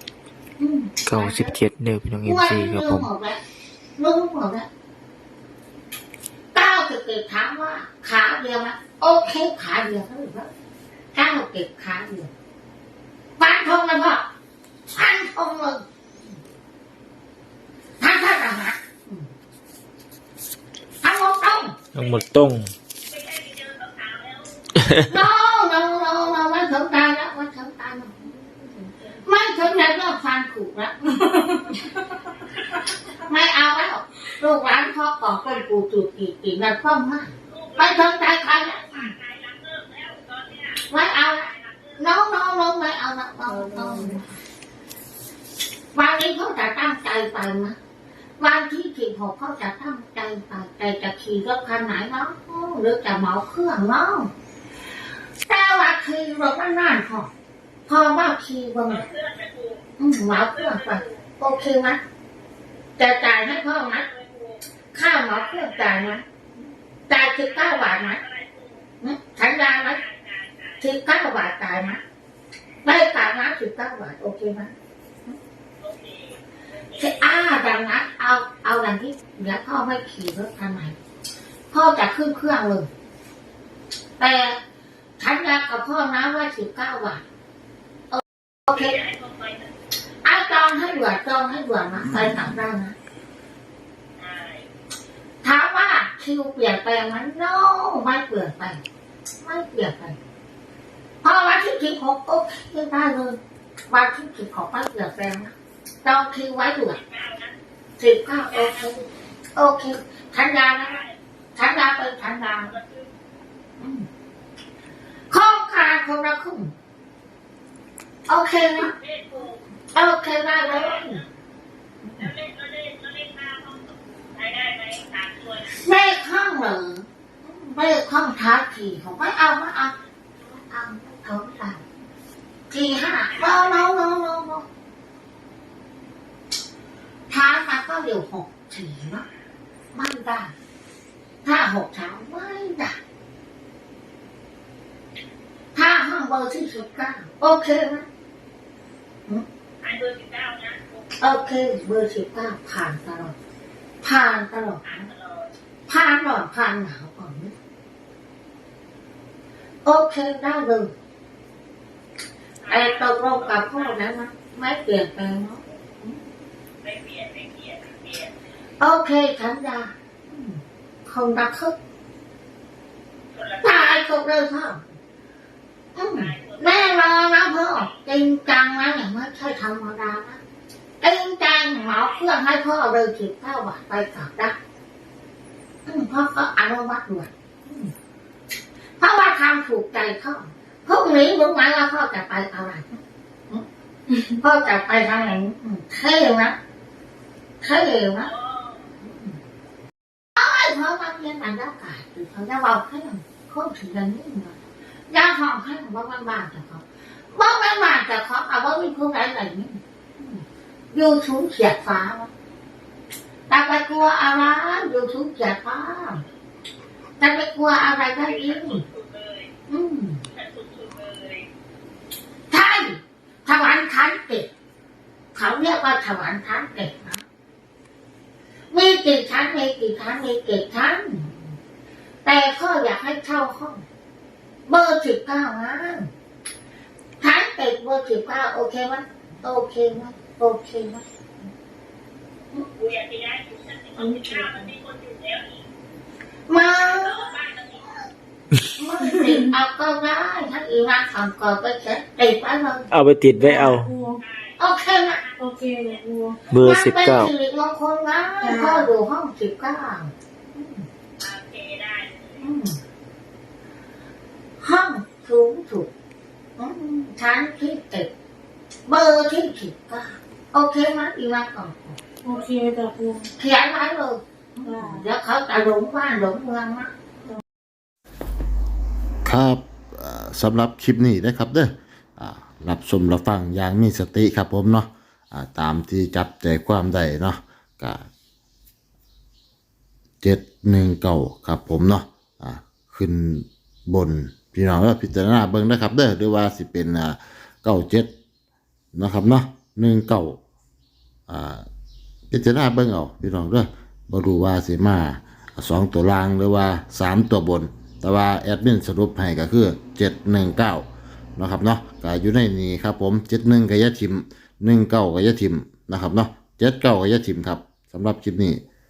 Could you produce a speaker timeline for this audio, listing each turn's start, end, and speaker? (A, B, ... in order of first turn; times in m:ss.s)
0:00.6-0:01.6 A
0:01.1-0:03.1 B
0:02.2-0:03.4 A
0:04.0-0:04.7 A
0:06.5-0:10.5 A
0:11.1-0:12.3 A
0:13.4-0:14.2 A
0:14.9-0:15.9 A
0:18.0-0:19.3 A
0:21.0-0:21.8 A
0:21.9-0:22.3 C
0:22.0-0:22.7 B
0:23.0-0:24.6 C
0:25.1-0:31.6 A
0:31.2-0:31.8 D
0:33.2-0:39.1 A
0:37.5-0:38.2 C
0:38.9-0:42.0 C
0:40.9-0:44.4 A
0:43.5-0:44.1 D
0:45.9-0:47.8 A
0:48.4-0:54.3 A
0:55.5-0:57.3 A
0:57.9-0:59.1 A
0:58.9-1:01.3 C
1:00.0-1:02.0 A
1:03.0-1:04.0 A
1:03.4-1:04.6 C
1:04.9-1:06.2 A
1:05.3-1:06.1 C
1:07.1-1:08.2 A
1:07.4-1:08.8 C
1:09.0-1:10.0 A
1:09.7-1:10.8 C
1:10.8-1:12.0 A
1:12.8-1:14.7 A
1:15.8-1:17.7 C
1:17.0-1:21.0 A
1:21.7-1:22.9 A
1:24.2-1:24.6 A
1:25.2-1:27.2 A
1:28.1-1:29.0 A
1:28.7-1:29.7 C
1:30.2-1:33.0 A
1:34.2-1:34.7 C
1:35.4-1:38.8 A
1:39.4-1:40.2 A
1:41.2-1:43.4 A
1:43.9-1:47.0 A
1:46.9-1:47.6 C
1:48.0-1:49.0 A
1:48.5-1:49.1 C
1:49.6-1:51.0 A
1:50.8-1:51.2 C
1:51.6-1:52.8 A
1:52.6-1:53.1 C
1:53.8-1:54.1 A
1:55.3-1:56.7 A
1:58.3-1:58.9 A
1:58.8-1:59.6 C
1:59.9-2:01.2 A
2:00.6-2:01.3 C
2:02.0-2:02.3 A
2:02.2-2:05.8 C
2:05.8-2:11.8 A
2:12.7-2:14.7 A
2:13.1-2:13.9 C
2:17.3-2:19.2 A
2:19.9-2:20.5 A
2:21.4-2:23.0 A
2:25.8-2:28.0 A
2:29.8-2:31.1 C
2:31.2-2:33.4 A
2:34.0-2:35.1 A
2:34.8-2:35.5 C
2:35.9-2:37.6 A
2:39.8-2:40.9 A
2:42.6-2:44.0 C
2:42.7-2:46.2 A
2:46.8-2:48.4 C
2:48.8-2:51.8 A
2:53.3-2:54.0 C
2:53.6-2:54.8 A
2:56.0-3:00.4 A
2:56.1-2:58.0 C
3:01.0-3:04.6 A
3:01.8-3:02.3 C
3:05.9-3:07.9 A
3:09.0-3:13.6 A
3:14.3-3:16.6 A
3:17.6-3:18.3 A
3:18.2-3:18.8 C
3:19.0-3:19.4 A
3:20.4-3:24.6 A
3:25.1-3:32.3 A
3:33.5-3:36.2 A
3:34.1-3:34.5 C
3:37.2-3:38.8 A
3:38.2-3:39.5 C
3:39.7-3:40.2 A
3:40.3-3:41.5 C
3:42.5-3:44.5 A
3:45.4-3:47.2 A
3:48.7-3:51.4 A
3:52.2-3:53.8 A
3:54.7-3:56.1 A
3:57.2-4:01.0 A
4:02.6-4:05.7 C
4:04.0-4:04.7 D
4:06.5-4:07.2 A
4:06.8-4:08.0 C
4:08.8-4:12.9 A
4:12.9-4:13.9 B
4:13.4-4:14.2 D
4:14.2-4:16.0 C
4:14.6-4:15.2 A
4:15.4-4:16.4 D
4:16.5-4:17.3 B
4:16.6-4:20.8 A
4:18.4-4:18.9 D
4:21.2-4:22.4 C
4:22.4-4:22.8 A
4:24.6-4:25.9 A
4:26.6-4:28.1 A
4:28.9-4:32.0 A
4:32.2-4:33.3 D
4:33.4-4:36.9 A
4:34.6-4:35.1 D
4:39.2-4:48.1 E
4:50.2-4:58.1 E
4:58.9-5:00.4 E
5:01.3-5:01.7 E
5:02.3-5:18.6 E